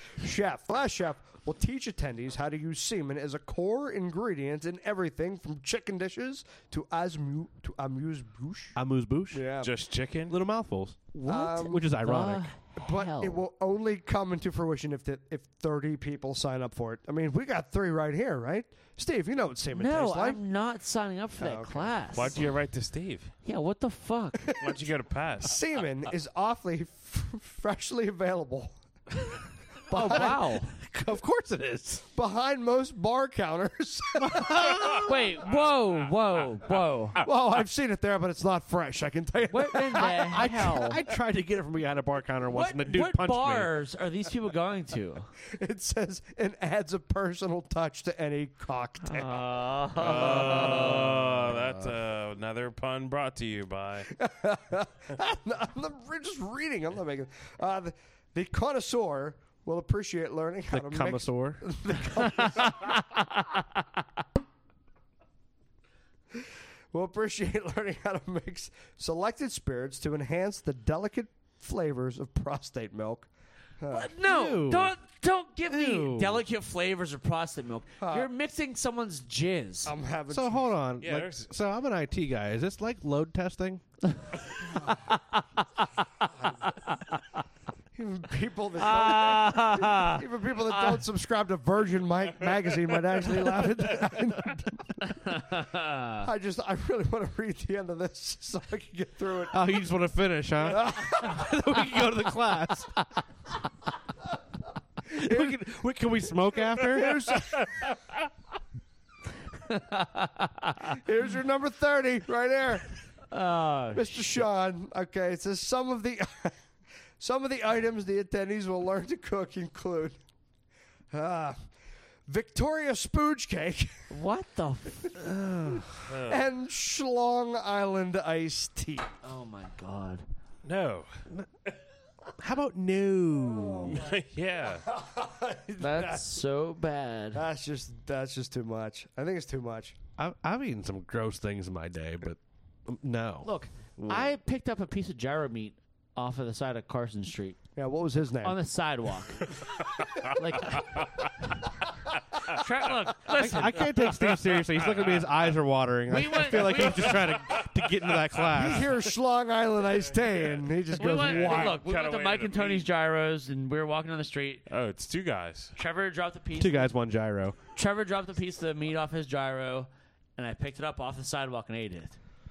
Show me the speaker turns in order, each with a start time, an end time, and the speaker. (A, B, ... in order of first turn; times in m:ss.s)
0:00.2-0:08.8 A
0:08.8-0:09.4 B
0:09.3-0:09.7 A
0:09.6-0:10.4 C
0:10.3-0:11.0 B
0:11.1-0:11.9 A
0:11.2-0:13.4 D
0:11.6-0:12.5 B
0:12.8-0:20.4 A
0:19.7-0:22.4 D
0:21.4-0:21.9 A
0:22.1-0:23.3 C
0:23.4-0:24.4 D
0:24.4-0:24.9 A
0:24.6-0:25.8 C
0:25.4-0:28.8 A
0:29.9-0:30.4 A
0:29.9-0:30.7 D
0:30.0-0:32.0 B
0:32.1-0:35.1 A
0:34.2-0:35.3 B
0:35.0-0:37.2 D
0:35.4-0:36.1 C
0:37.2-0:40.8 A
0:39.5-0:41.0 D
0:39.9-0:43.7 B
0:42.5-0:45.3 D
0:45.5-0:51.6 A
0:49.0-0:51.1 D
0:50.0-0:54.1 C
0:54.1-1:03.1 A
1:00.7-1:01.7 B
1:06.3-1:13.3 A
1:13.8-1:14.1 A
1:13.9-1:19.9 D
1:14.2-1:14.9 B
1:15.7-1:16.4 B
1:18.0-1:18.3 A
1:19.8-1:20.8 A
1:20.3-1:23.8 B
1:21.0-1:21.5 C
1:24.8-1:25.4 D
1:26.0-1:26.3 D
1:26.9-1:27.2 D
1:27.9-1:35.5 A
1:28.8-1:31.0 D
1:35.1-1:36.3 D
1:36.2-1:39.7 A
1:39.5-1:43.0 B
1:40.6-1:41.5 A
1:45.1-1:47.3 B
1:45.3-1:45.6 A
1:46.8-1:47.8 A
1:49.6-1:51.0 D
1:50.9-1:52.9 A
1:53.3-1:54.4 D
1:53.9-1:56.6 A
1:57.2-2:00.2 A
2:01.1-2:01.6 A
2:02.3-2:04.1 A
2:04.1-2:05.2 D
2:05.2-2:05.9 B
2:05.7-2:09.1 A
2:06.0-2:06.4 C
2:09.2-2:10.2 D
2:10.6-2:11.2 C
2:12.4-2:14.0 B
2:13.5-2:14.1 A
2:13.8-2:14.8 C
2:14.8-2:16.4 A
2:15.8-2:17.4 D
2:17.3-2:20.0 A
2:20.2-2:23.5 B
2:23.4-2:27.6 D
2:27.8-2:28.6 A
2:28.4-2:29.6 D
2:30.3-2:31.3 D
2:32.5-2:34.0 D
2:33.3-2:38.9 B
2:34.0-2:35.3 C
2:36.1-2:37.2 D
2:36.7-2:38.8 C
2:38.5-2:41.8 A
2:40.4-2:42.8 C
2:41.0-2:44.6 D
2:44.7-2:45.7 C
2:45.8-2:46.9 D
2:46.6-2:47.6 B
2:47.7-2:52.2 D